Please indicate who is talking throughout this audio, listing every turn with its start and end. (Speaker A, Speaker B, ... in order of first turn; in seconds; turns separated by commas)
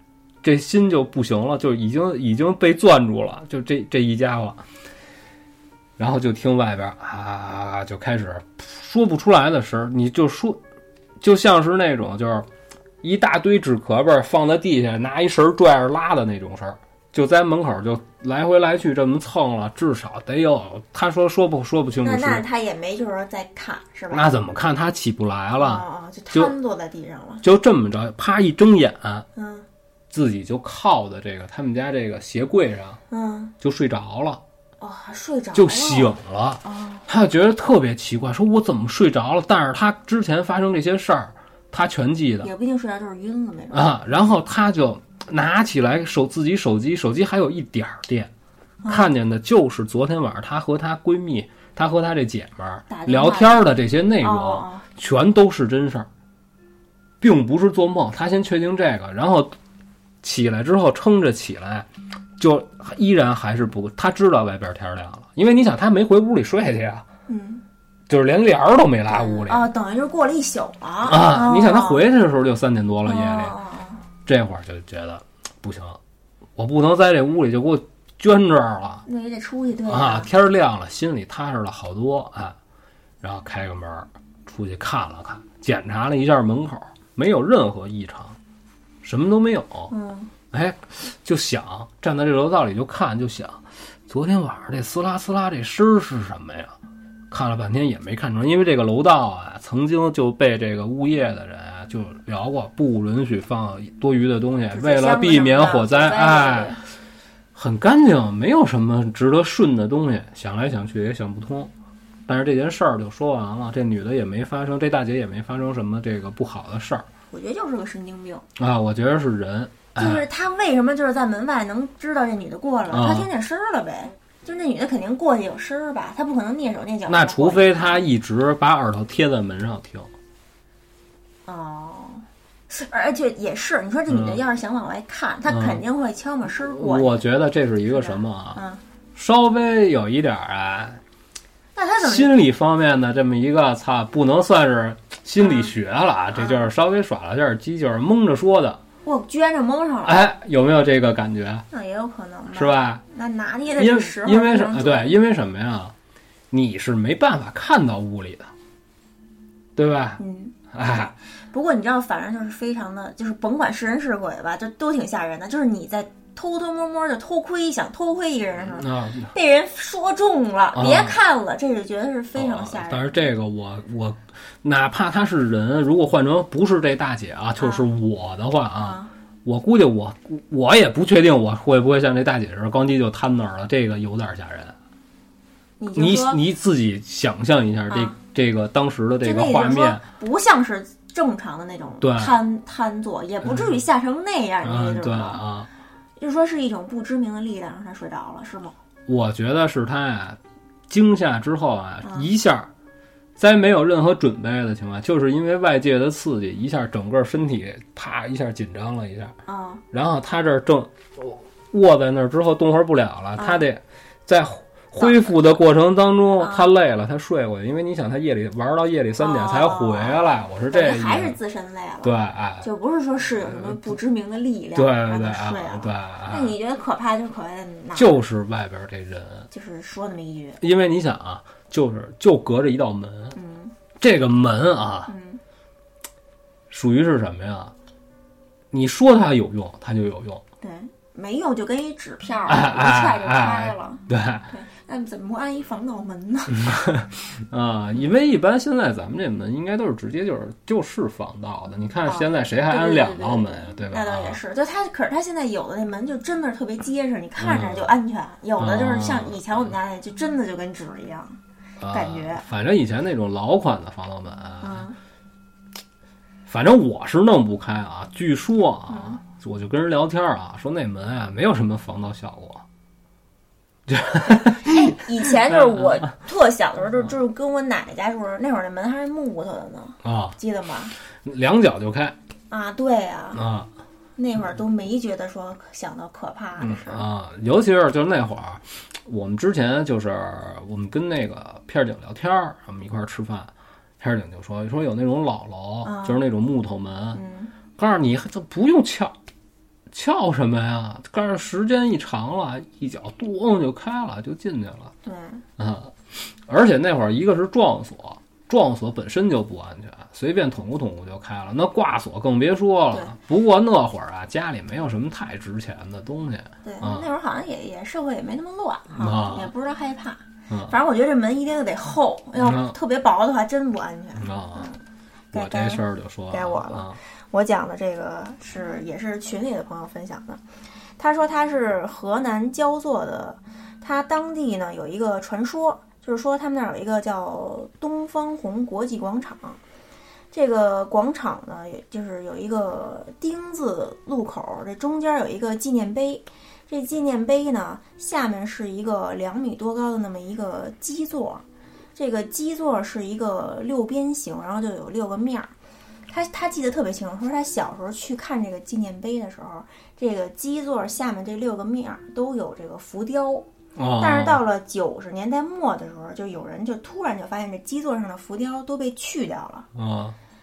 Speaker A: 0.4-4.6, Speaker A: 6.0-10.6, Speaker A: 11.2-12.5, Speaker A: 13.0-22.4, Speaker B: 22.0-24.3, Speaker A: 24.1-26.5, Speaker B: 25.6-27.4, Speaker A: 27.4-29.3, Speaker B: 29.4-29.7, Speaker A: 30.1-33.0, Speaker B: 33.1-33.5, Speaker A: 33.6-34.4, Speaker B: 34.8-37.1, Speaker A: 35.5-42.5, Speaker B: 42.4-44.0, Speaker A: 43.7-48.3, Speaker B: 48.8-49.1, Speaker A: 48.9-56.1, Speaker B: 52.9-54.9, Speaker A: 57.2-59.5, Speaker A: 60.2-67.1, Speaker B: 67.3-67.6, Speaker A: 68.1-69.7, Speaker B: 69.1-72.0, Speaker A: 71.0-73.6, Speaker B: 73.1-74.0, Speaker A: 74.3-76.0, Speaker A: 76.6-79.0, Speaker B: 79.1-80.3, Speaker A: 79.9-82.6, Speaker A: 83.2-88.4, Speaker A: 89.0-89.9, Speaker B: 89.9-90.3, Speaker A: 90.5-96.8, Speaker A: 97.3-106.8, Speaker B: 104.7-106.8, Speaker A: 107.5-111.7, Speaker A: 112.3-117.1, Speaker B: 117.3-118.5, Speaker A: 118.6-120.2, Speaker B: 120.0-128.1, Speaker A: 122.9-123.3, Speaker A: 127.1-130.1, Speaker B: 131.5-137.2, Speaker A: 134.1-134.4, Speaker A: 135.5-135.8, Speaker A: 136.6-138.6, Speaker B: 137.8-138.8, Speaker A: 139.2-141.0, Speaker B: 141.8-142.3, Speaker A: 142.0-148.8, Speaker B: 145.4-145.7, Speaker B: 146.3-146.7, Speaker B: 149.1-150.2, Speaker A: 150.1-151.7, Speaker B: 151.7-155.2, Speaker A: 152.5-153.0, Speaker A: 153.7-155.9, Speaker A: 156.5-158.5, Speaker A: 159.8-160.2, Speaker B: 160.2-173.2, Speaker A: 160.7-161.1, Speaker A: 168.7-169.3, Speaker A: 170.7-171.2, Speaker A: 172.4-184.8, Speaker B: 177.6-177.8, Speaker B: 178.8-179.1, Speaker B: 185.8-186.4, Speaker A: 185.9-190.1, Speaker B: 187.9-188.2, Speaker B: 189.2-195.4, Speaker A: 192.0-192.4, Speaker A: 194.6-195.7, Speaker B: 196.2-198.8, Speaker A: 199.1-202.7, Speaker B: 202.0-202.3, Speaker A: 203.4-209.3, Speaker B: 209.5-209.8, Speaker A: 209.9-221.4, Speaker B: 213.4-213.7, Speaker B: 215.0-215.4, Speaker B: 216.4-216.7, Speaker B: 219.2-228.2, Speaker A: 222.0-222.7, Speaker A: 223.4-223.9, Speaker A: 224.8-226.6, Speaker A: 227.9-229.5, Speaker B: 229.5-230.6, Speaker A: 230.6-233.4, Speaker B: 233.3-233.7, Speaker A: 234.0-235.1, Speaker B: 235.1-235.4, Speaker A: 236.7-237.7, Speaker A: 238.7-240.4, Speaker B: 240.6-246.8, Speaker A: 242.5-244.5, Speaker A: 246.6-254.4, Speaker B: 252.1-261.4, Speaker A: 257.4-257.9, Speaker A: 258.6-259.4, Speaker A: 261.8-264.9, Speaker B: 261.9-262.4, Speaker B: 264.6-265.0, Speaker A: 266.5-272.6, Speaker B: 268.9-269.2, Speaker A: 273.9-276.0, Speaker B: 274.6-280.9, Speaker A: 280.0-280.4, Speaker A: 281.2-282.2, Speaker B: 282.5-283.5, Speaker A: 283.4-283.7, Speaker B: 284.2-287.1, Speaker A: 286.6-297.2, Speaker B: 295.8-296.2, Speaker B: 297.1-297.5, Speaker A: 297.8-299.1, Speaker A: 299.9-304.9, Speaker B: 305.0-305.4, Speaker A: 305.6-317.1, Speaker B: 316.6-324.8, Speaker A: 318.9-319.5, Speaker A: 322.4-322.8, Speaker A: 324.2-324.7, Speaker A: 325.3-327.0, Speaker B: 325.3-330.4, Speaker B: 331.0-339.6, Speaker B: 340.3-351.4, Speaker B: 352.0-355.5, Speaker B: 356.1-369.7, Speaker A: 363.8-364.4, Speaker A: 369.8-370.2